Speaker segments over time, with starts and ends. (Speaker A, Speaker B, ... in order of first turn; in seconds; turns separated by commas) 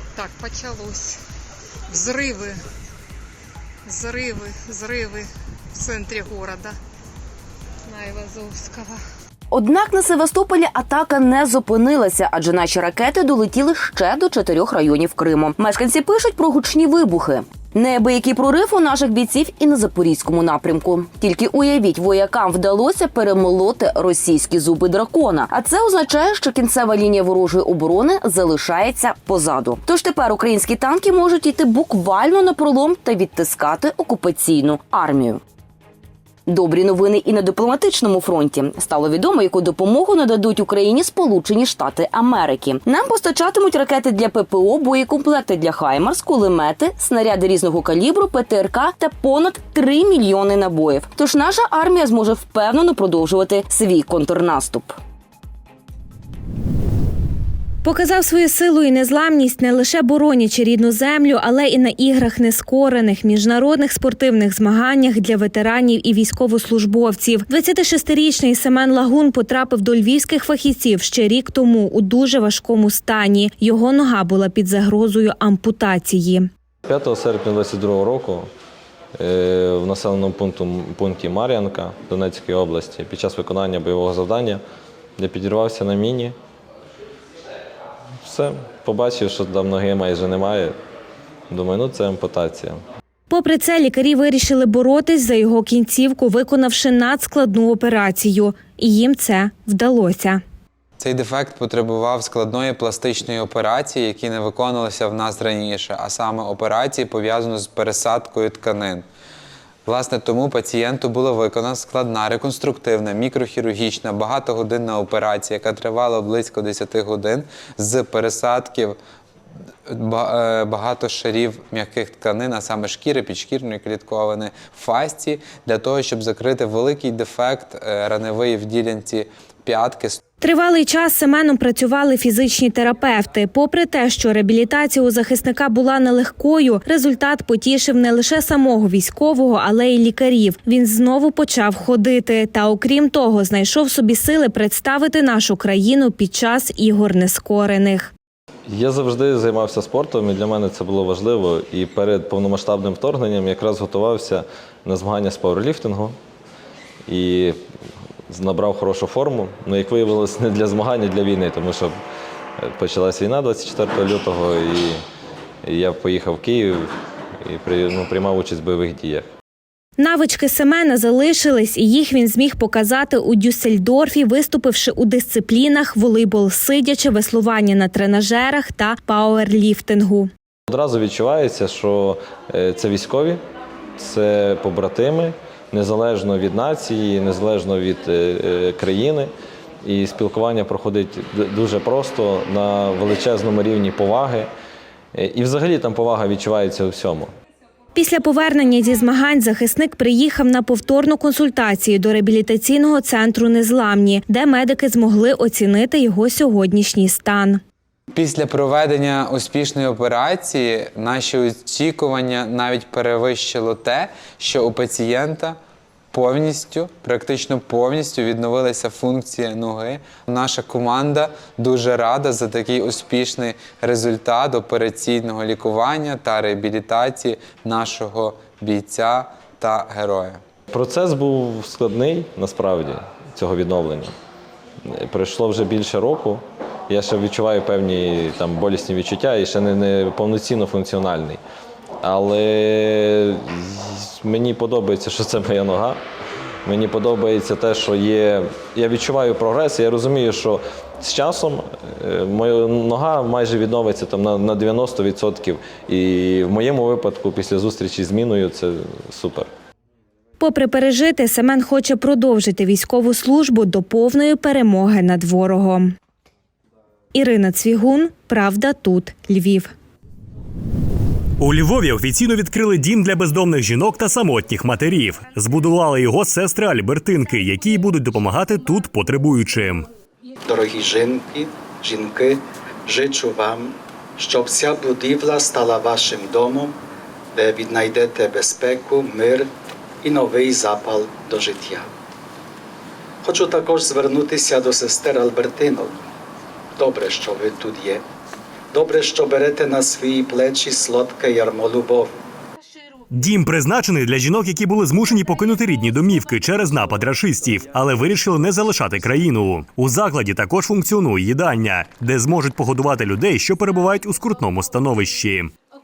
Speaker A: 0.1-1.2, Speaker A: 1.9-2.6, Speaker A: 3.9-6.7, Speaker A: 7.9-9.0, Speaker B: 9.5-35.4, Speaker B: 36.5-55.0, Speaker C: 57.8-76.5, Speaker D: 76.8-78.5, Speaker D: 79.2-84.6, Speaker D: 85.2-86.3, Speaker D: 88.2-90.8, Speaker D: 91.5-92.8, Speaker C: 93.3-100.4, Speaker E: 101.0-109.0, Speaker E: 109.8-119.0, Speaker E: 119.9-130.2, Speaker C: 130.4-148.1, Speaker D: 148.7-156.2, Speaker D: 157.1-157.7, Speaker D: 158.3-162.0, Speaker D: 162.6-165.0, Speaker D: 165.6-169.3, Speaker C: 170.0-180.3, Speaker D: 180.7-183.4, Speaker D: 184.0-189.3, Speaker D: 189.8-194.5, Speaker D: 195.1-197.3, Speaker C: 197.9-207.6, Speaker E: 208.1-215.6, Speaker E: 216.1-230.4, Speaker D: 230.7-234.1, Speaker D: 234.8-241.4, Speaker D: 242.0-246.0, Speaker D: 246.6-259.5, Speaker C: 260.4-265.9, Speaker C: 267.1-269.7, Speaker F: 271.4-279.9, Speaker G: 280.4-286.8, Speaker G: 287.3-289.5, Speaker G: 290.0-291.9, Speaker G: 293.2-296.0, Speaker G: 296.8-298.0, Speaker G: 298.7-302.1, Speaker F: 303.1-315.5